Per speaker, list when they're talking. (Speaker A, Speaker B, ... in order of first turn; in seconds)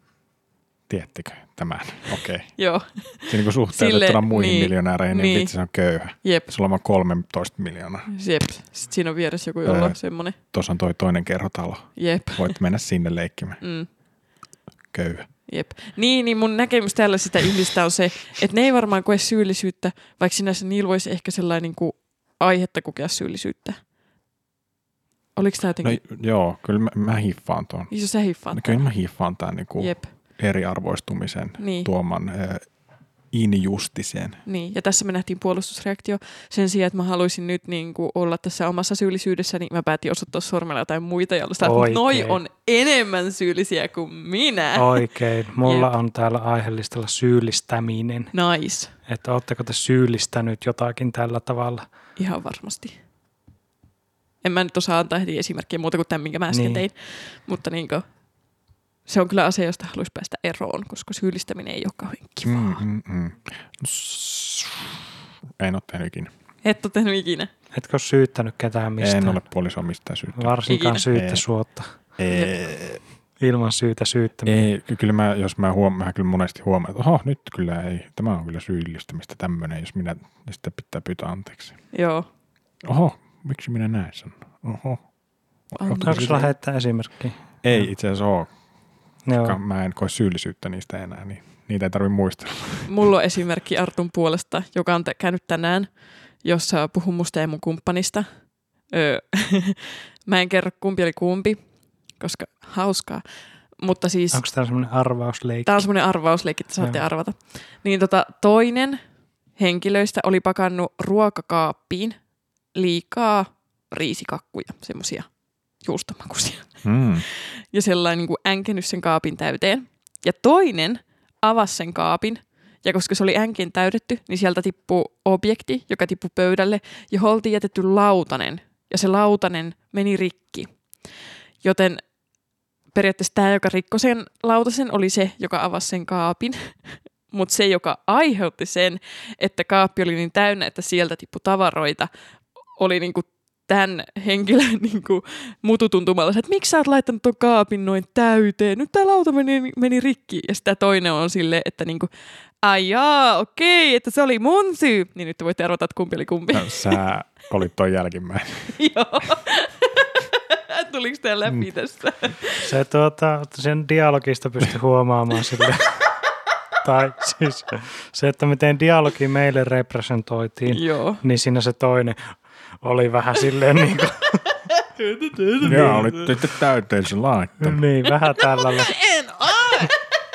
Speaker A: 0.9-2.5, 3.3-8.1, 9.6-10.0, 10.5-13.6, 14.9-15.3, 25.8-27.9, 28.5-32.6, 33.3-34.4, 62.4-65.0, 65.6-66.3, 69.0-71.4, 72.2-73.0, 74.5-81.8, 82.8-85.0, 85.7-86.5, 87.6-88.5, 89.4-92.9, 116.8-117.2, 156.5-158.7, 175.6-177.8
Speaker B: 2.6-5.5, 6.2-6.5, 8.1-10.4, 12.0-12.5, 13.6-13.9, 15.5-23.8, 25.4-26.0, 27.9-28.9, 29.8-30.1, 31.6-31.9, 34.5-45.1, 45.6-45.9, 48.3-48.9, 52.2-53.0, 54.4-58.0, 59.1-62.8, 66.6-67.5, 70.7-71.1, 72.3-72.5, 81.9-82.2, 85.8-86.5, 92.9-95.9, 96.4-98.3, 98.9-101.6, 102.2-103.2, 103.8-104.4, 105.7-109.0, 109.6-112.2, 112.7-115.3, 115.8-116.7, 117.3-130.7, 131.6-132.0, 132.9-142.1, 142.8-152.1, 152.6-157.0, 158.7-162.7, 170.7-171.2, 174.8-176.0, 178.3-179.9
Speaker C: 41.6-42.4, 44.7-48.3, 49.1-51.9, 56.5-56.9, 67.7-69.4, 70.4-71.9, 73.4-74.7, 86.0-87.9, 89.2-89.6, 104.3-105.9, 162.6-166.0, 166.8-174.4, 175.4-176.2, 177.6-178.9